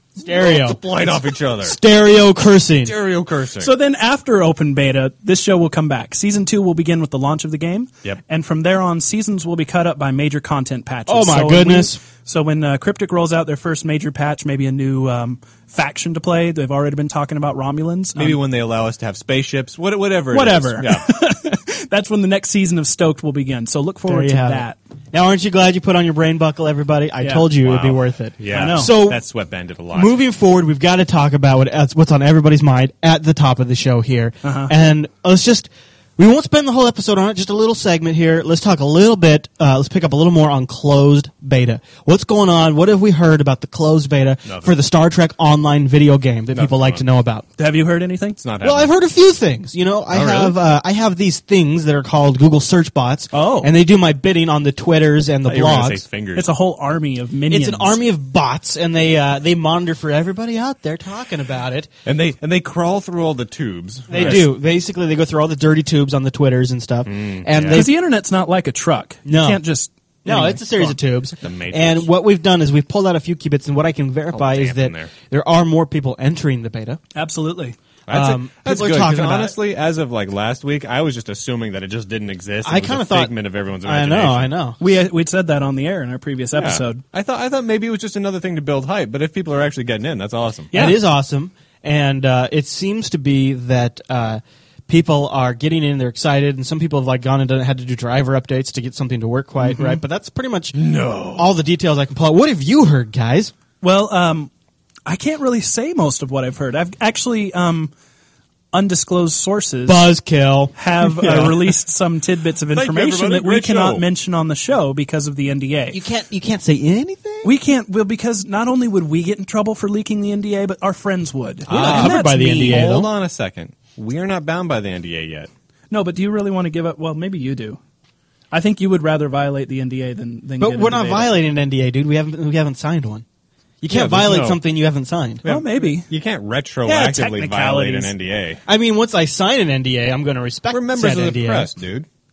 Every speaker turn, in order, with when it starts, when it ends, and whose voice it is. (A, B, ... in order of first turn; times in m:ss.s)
0:00.2-0:01.8 A
0:00.2-0:02.9 B
0:02.8-0:03.7 A
0:03.6-0:18.4 C
0:11.1-0:12.0 B
0:18.2-0:21.1 A
0:20.3-0:24.8 C
0:24.1-0:29.2 B
0:27.2-0:27.5 C
0:27.6-0:30.2 A
0:28.5-0:28.9 C
0:29.9-0:47.4 B
0:34.4-0:34.7 C
0:44.4-0:44.8 A
0:46.5-0:47.0 A
0:47.6-0:48.4 C
0:48.4-0:48.9 A
0:48.6-0:56.0 B
0:50.1-0:50.6 A
0:53.3-0:53.7 C
0:55.4-0:56.5 A
0:56.4-0:58.0 C
0:57.5-1:01.9 B
1:02.0-1:04.5 A
1:04.1-1:07.9 B
1:04.1-1:04.4 C
1:07.1-1:07.8 A
1:07.7-1:11.0 C
1:09.2-1:09.6 B
1:10.2-1:17.0 B
1:11.4-1:12.1 A
1:14.3-1:15.1 A
1:17.2-1:17.8 C
1:18.1-1:24.5 A
1:18.1-1:19.6 B
1:22.6-1:23.3 B
1:23.8-1:24.8 B
1:24.8-1:27.0 C
1:26.6-1:30.7 A
1:30.7-1:31.0 C
1:30.7-1:40.8 B
1:39.7-1:40.0 C
1:40.7-1:41.5 A
1:41.3-1:43.5 B
1:43.8-1:44.5 C
1:45.1-1:47.9 C
1:48.7-1:50.1 C
1:49.9-1:51.6 B
1:50.8-1:56.0 C
1:51.1-1:51.7 A
1:52.7-1:54.1 A
1:55.9-1:57.5 B
1:57.4-2:03.0 C
2:01.7-2:05.5 A
2:01.7-2:03.1 B
2:05.9-2:07.8 C
2:08.5-2:11.4 C
2:10.6-2:13.2 B
2:13.8-2:15.4 B
2:13.9-2:14.6 A
2:15.4-2:18.6 A
2:15.4-2:16.1 C
2:16.8-2:18.1 C
2:18.7-2:21.7 B
2:20.7-2:22.1 A